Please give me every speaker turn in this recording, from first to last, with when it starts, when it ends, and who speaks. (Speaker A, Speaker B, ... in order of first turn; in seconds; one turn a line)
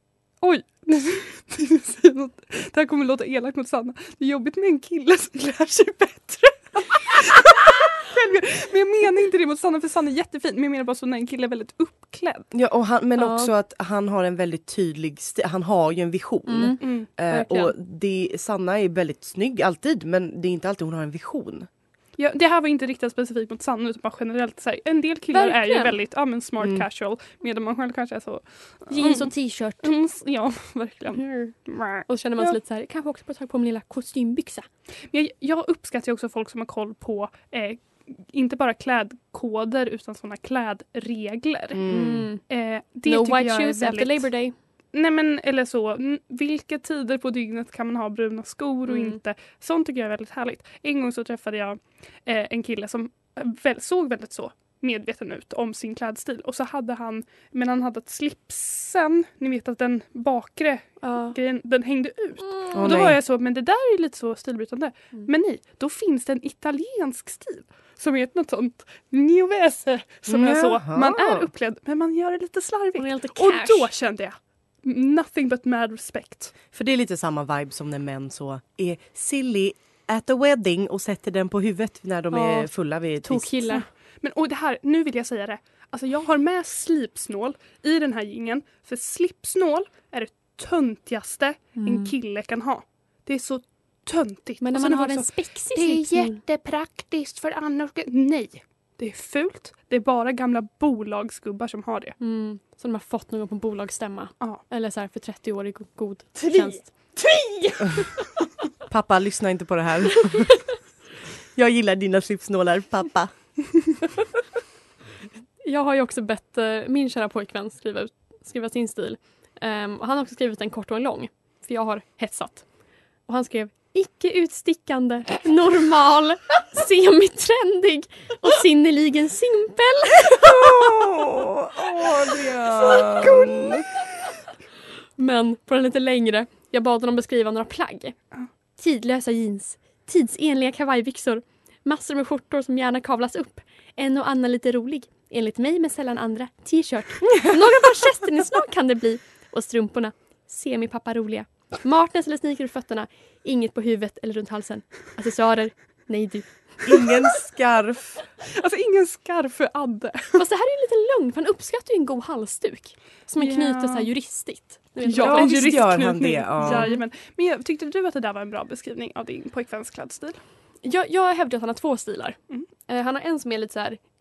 Speaker A: 0.4-12.5
Speaker B: 12.5-21.7
Speaker C: 13.2-13.5
Speaker C: 16.5-17.7
Speaker A: 16.8-17.1
Speaker A: 22.2-32.0
Speaker C: 25.3-26.0
Speaker B: 26.6-26.9
Speaker C: 28.9-29.9
Speaker C: 31.2-31.5
Speaker C: 32.1-34.7
Speaker A: 35.1-41.9
Speaker B: 41.7-42.3
Speaker C: 41.9-42.4
Speaker A: 42.5-44.3
Speaker C: 43.0-44.5
Speaker A: 44.9-76.5
Speaker C: 48.9-49.2
Speaker C: 61.0-61.4
Speaker B: 62.7-63.2
Speaker B: 70.3-71.5
Speaker C: 73.0-73.9
Speaker B: 76.7-83.6
Speaker C: 82.3-82.7
Speaker C: 83.2-83.9
Speaker A: 83.7-102.2
Speaker C: 91.8-92.1
Speaker C: 94.6-96.4
Speaker C: 102.2-106.9
Speaker A: 106.4-107.8
Speaker B: 108.9-110.7
Speaker B: 111.5-113.3
Speaker C: 115.6-122.7
Speaker C: 123.3-131.3
Speaker B: 130.4-133.9
Speaker C: 132.9-133.6
Speaker C: 135.2-138.2
Speaker C: 138.8-156.5
Speaker B: 156.8-158.2
Speaker A: 158.5-160.4
Speaker C: 160.4-165.9
Speaker A: 163.4-164.1
Speaker A: 165.0-170.4
Speaker B: 165.2-166.9
Speaker C: 166.6-167.0
Speaker C: 170.8-172.4
Speaker C: 172.9-174.0